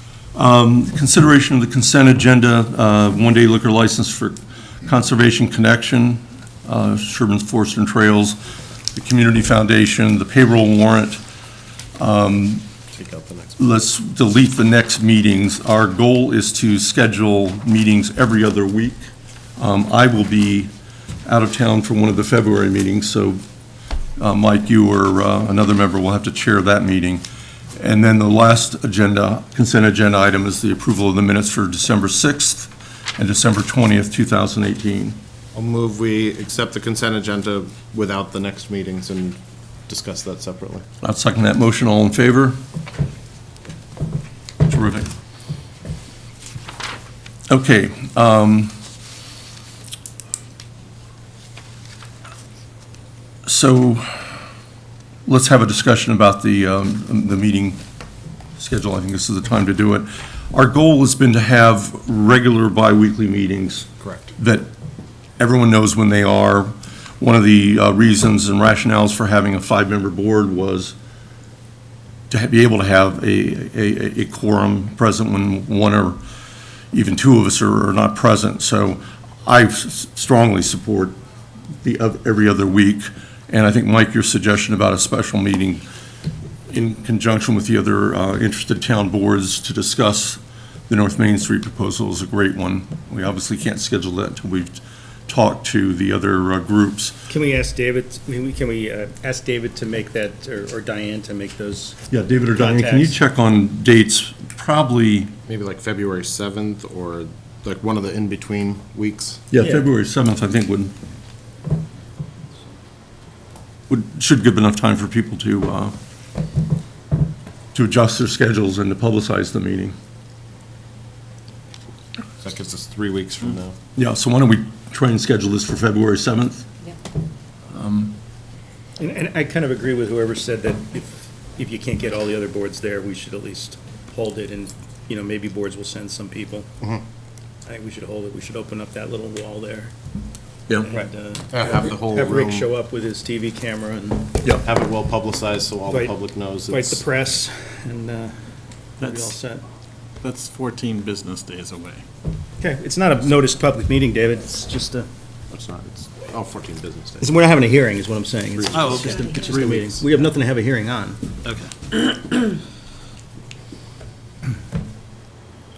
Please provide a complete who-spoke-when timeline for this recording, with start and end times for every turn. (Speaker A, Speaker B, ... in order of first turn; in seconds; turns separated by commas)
Speaker A: 0.3-8.4, Speaker A: 8.9-11.2, Speaker A: 12.0-12.6, Speaker B: 12.9-13.6, Speaker A: 13.6-19.0, Speaker A: 19.6-20.7, Speaker A: 21.2-23.4, Speaker A: 24.2-27.2, Speaker A: 27.8-35.2, Speaker B: 35.5-40.8, Speaker A: 41.0-42.6, Speaker A: 44.6-45.1, Speaker A: 47.5-48.7, Speaker A: 53.5-54.3, Speaker A: 55.2-57.8, Speaker A: 58.6-64.7, Speaker B: 64.0-64.3, Speaker A: 65.4-70.9, Speaker A: 72.3-76.2, Speaker A: 76.9-81.1, Speaker A: 81.8-85.8, Speaker A: 86.7-97.1, Speaker C: 97.3-102.0, Speaker A: 102.1-105.3, Speaker C: 102.5-103.2, Speaker B: 105.5-109.4, Speaker A: 109.5-110.9, Speaker C: 109.6-109.9, Speaker A: 113.9-115.9, Speaker A: 117.7-119.9, Speaker B: 122.4-123.8, Speaker A: 124.0-126.7, Speaker A: 127.7-128.2, Speaker C: 129.0-136.7, Speaker C: 137.7-139.9, Speaker C: 140.8-144.3, Speaker B: 141.5-142.7, Speaker B: 144.6-147.0, Speaker C: 146.7-148.3, Speaker C: 149.0-149.6, Speaker D: 149.0-149.3, Speaker D: 150.2-152.0, Speaker C: 152.6-155.1, Speaker B: 155.5-157.3, Speaker C: 157.2-162.4, Speaker D: 158.7-159.9